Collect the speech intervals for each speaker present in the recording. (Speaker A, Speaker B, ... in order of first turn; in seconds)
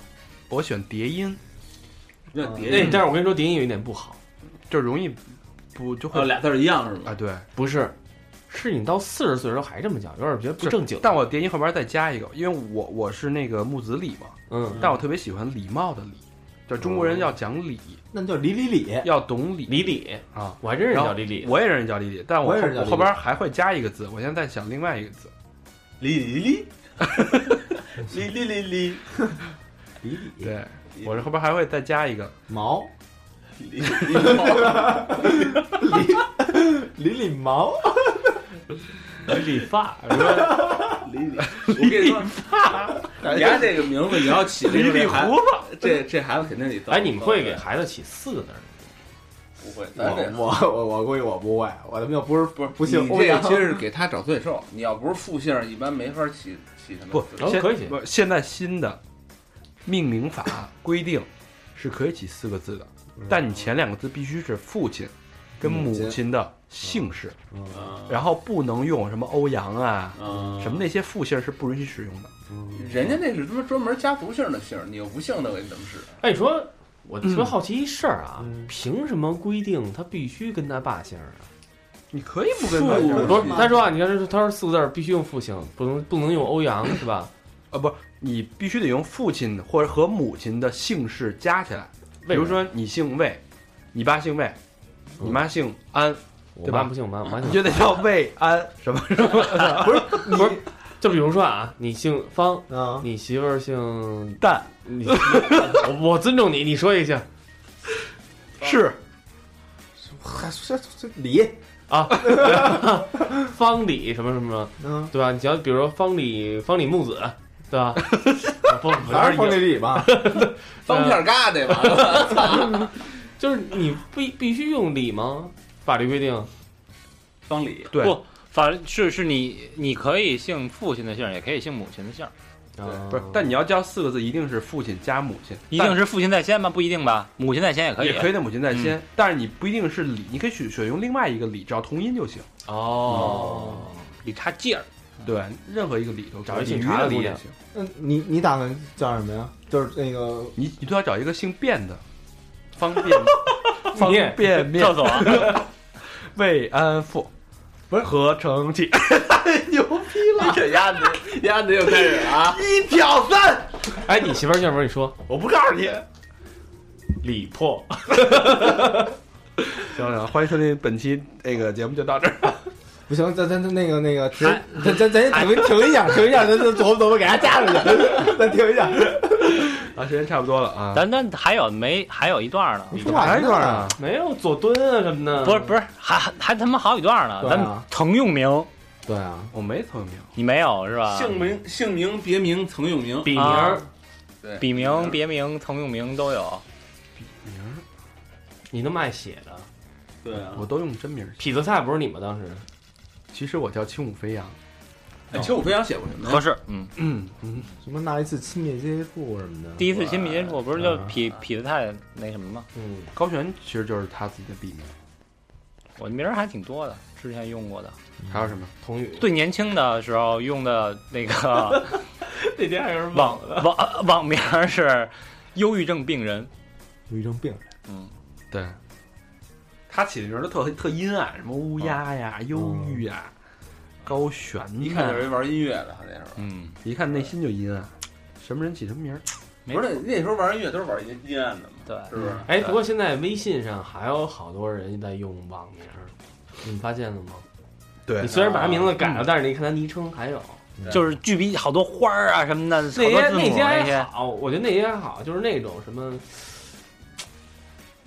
Speaker A: 0.5-1.4, 2.7-3.0, 4.7-5.2, 5.8-6.4, 7.0-7.5, 10.6-18.0, 19.0-25.3, 30.4-32.4, 40.4-40.7, 41.5-45.7, 57.1-59.0, 59.8-67.4, 68.1-72.3, 77.2-77.5, 82.1-83.6, 87.7-93.4, 93.9-94.6, 95.2-100.4, 104.4-105.8, 108.6-109.0, 127.9-128.2, 133.1-135.9, 138.0-142.5, 143.1-143.4, 145.2-147.6, 150.6-152.0, 152.7-157.3, 157.9-161.0, 162.1-163.9, 165.3-166.0, 169.8-172.7, 179.4-181.1, 183.0-184.0, 189.5-190.3, 197.2-197.8, 200.5-201.4, 203.3-204.6, 207.0-207.7, 213.2-214.9, 218.3-218.7, 228.5-228.8, 229.9-233.3, 234.1-235.3, 236.8-239.3, 248.1-249.1
Speaker B: 2.3-3.1, 6.1-7.2, 26.0-26.7, 27.3-29.1, 30.9-31.3, 33.6-35.8, 40.8-42.4, 43.2-47.6, 49.6-50.5, 52.6-57.7, 67.7-68.2, 70.2-70.9, 72.7-76.2, 82.7-83.8, 120.9-122.9, 127.5-127.9, 160.4-162.6, 191.1-193.4, 194.4-195.2, 200.2-200.7, 205.3-206.4, 234.8-236.5, 239.7-242.5
Speaker C: 2.5-2.9, 18.1-19.1, 22.4-23.2, 30.0-30.5, 32.5-32.9, 34.2-38.5, 40.3-41.0, 43.2-43.6, 50.0-53.9, 65.6-66.2, 67.5-67.9, 72.5-72.8, 78.4-78.7, 83.0-83.6, 99.8-100.6, 102.7-103.1, 110.0-111.6, 112.1-113.0, 114.8-115.1, 119.0-120.2, 147.7-150.6, 173.1-179.7, 182.9-183.9, 187.4-187.9, 189.1-189.5, 207.8-209.9, 210.8-211.1, 227.1-227.6, 232.5-233.0
Speaker D: 2.7-4.2, 7.5-8.0, 8.5-11.2, 14.5-14.9, 19.7-21.6, 39.3-40.7, 46.9-48.9, 57.4-58.0, 76.2-81.5, 83.1-87.3, 92.2-92.7, 96.6-97.9, 99.8-107.3, 111.9-121.2, 121.8-122.9, 123.4-126.5, 132.8-133.5, 142.7-144.1, 146.5-147.4, 153.8-154.7, 164.0-165.2, 167.2-169.1, 183.0-185.8, 193.2-193.9, 198.7-199.7, 201.4-202.7, 212.8-213.1, 218.8-219.3, 221.7-223.7, 242.5-247.4, 248.2-250.6, 252.9-256.7
Speaker E: 128.0-132.3, 135.7-139.0, 143.2-143.5, 144.2-144.9, 154.6-155.5, 174.4-175.9, 180.9-183.0, 185.4-188.7, 190.4-191.3, 193.3-193.8, 194.6-196.6, 206.2-206.9, 209.8-212.7, 216.0-218.0, 219.2-222.0, 223.1-226.5, 227.9-228.1, 236.4-236.8, 241.9-242.8, 250.9-254.1